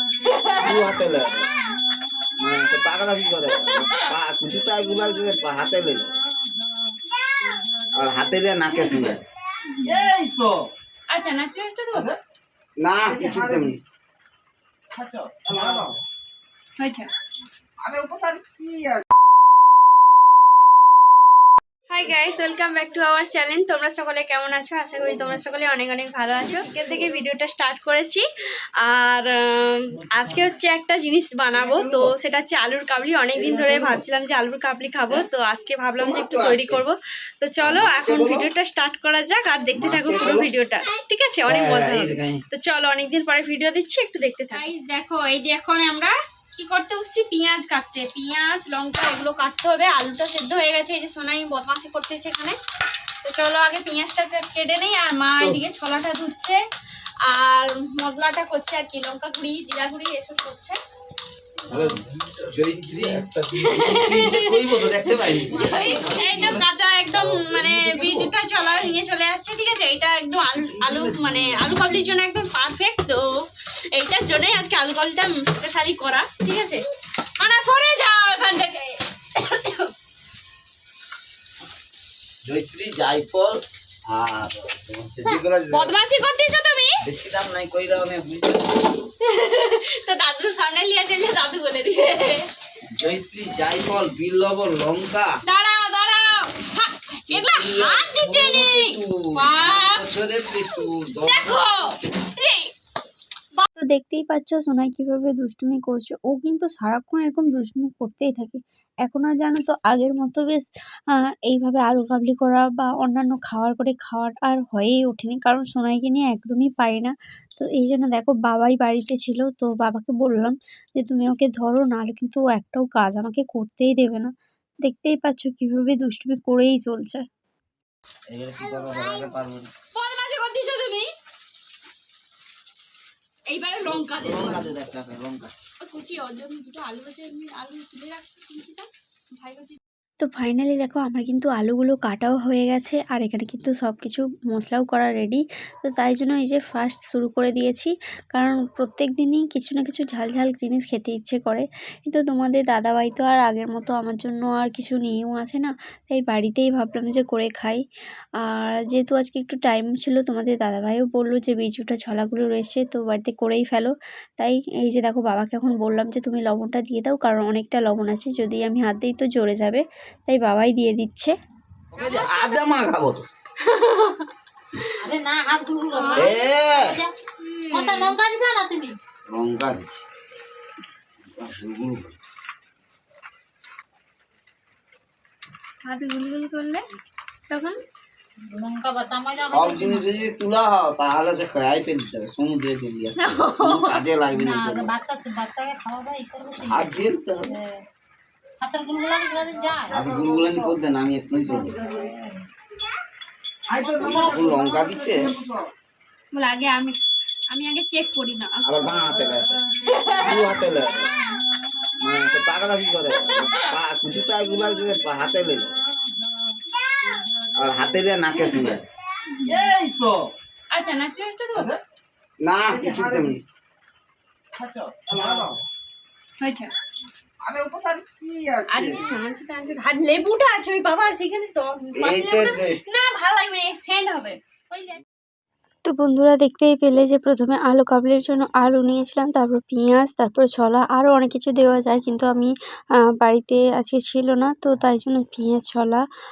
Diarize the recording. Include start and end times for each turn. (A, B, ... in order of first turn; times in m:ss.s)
0:00.2-0:00.9 A
0:00.6-0:01.5 B
0:02.4-0:06.1 B
0:03.5-0:04.0 A
0:08.0-0:09.2 B
0:09.7-0:10.0 A
0:09.8-0:10.7 C
0:11.1-0:12.1 A
0:11.9-0:12.2 C
0:12.8-0:13.8 B
0:13.1-0:13.8 C
0:14.9-0:15.9 C
0:15.5-0:15.9 B
0:16.8-0:17.1 A
0:17.8-0:19.0 C
0:21.9-0:28.3 A
0:28.8-0:52.6 A
0:31.6-0:32.1 B
0:33.4-0:34.0 B
0:36.0-0:36.8 B
0:37.6-0:38.5 B
0:39.8-0:40.5 B
0:41.5-0:42.4 B
0:53.2-0:56.6 A
0:57.3-1:00.8 A
1:01.7-1:02.0 A
1:01.7-1:03.3 B
1:03.6-1:16.8 A
1:03.8-1:06.6 B
1:06.1-1:06.5 C
1:07.2-1:08.3 C
1:10.6-1:11.6 C
1:17.4-1:19.9 A
1:22.4-1:26.0 B
1:25.7-1:27.0 A
1:27.0-1:28.9 B
1:29.2-1:32.5 A
1:33.0-1:35.3 B
1:35.5-1:40.1 A
1:37.3-1:41.6 B
1:41.2-1:42.7 A
1:43.8-2:04.3 D
2:04.8-2:07.2 D
2:08.3-2:09.7 B
2:09.9-2:11.1 A
2:13.5-2:14.7 A
2:13.9-2:15.5 B
2:15.8-2:19.8 A
2:20.2-2:37.8 D
2:38.4-2:51.3 D
2:52.0-2:53.3 B
2:53.7-2:54.2 A
2:55.0-2:57.1 E
2:56.2-2:57.0 B
2:57.4-2:58.2 A
2:57.7-2:59.0 E
2:59.3-3:00.0 B
3:01.4-3:02.1 B
3:05.8-3:06.8 A
3:07.5-3:07.8 A
3:08.5-3:10.1 E
3:09.5-3:14.9 B
3:13.2-3:14.0 A
3:14.3-3:17.7 E
3:16.6-3:17.6 B
3:18.6-3:20.7 E
3:19.9-3:21.8 B
3:21.5-3:22.4 E
3:23.7-3:25.7 C
3:24.0-3:25.4 B
3:24.0-3:24.5 E
3:26.3-3:27.0 A
3:27.5-3:28.6 A
3:28.7-3:29.6 B
3:29.8-3:30.4 A
3:30.2-3:31.1 B
3:32.0-3:35.7 B
3:33.2-3:33.7 A
3:37.6-3:38.8 B
3:39.4-3:39.6 A
3:39.5-3:40.3 C
3:40.7-3:41.7 A
3:41.5-3:41.8 C
3:42.4-3:43.4 B
3:42.7-3:43.4 C
3:44.5-3:45.6 C
3:46.4-3:46.7 A
3:47.4-3:49.0 C
3:48.7-3:55.0 A
3:52.0-3:52.8 B
3:55.8-4:06.0 D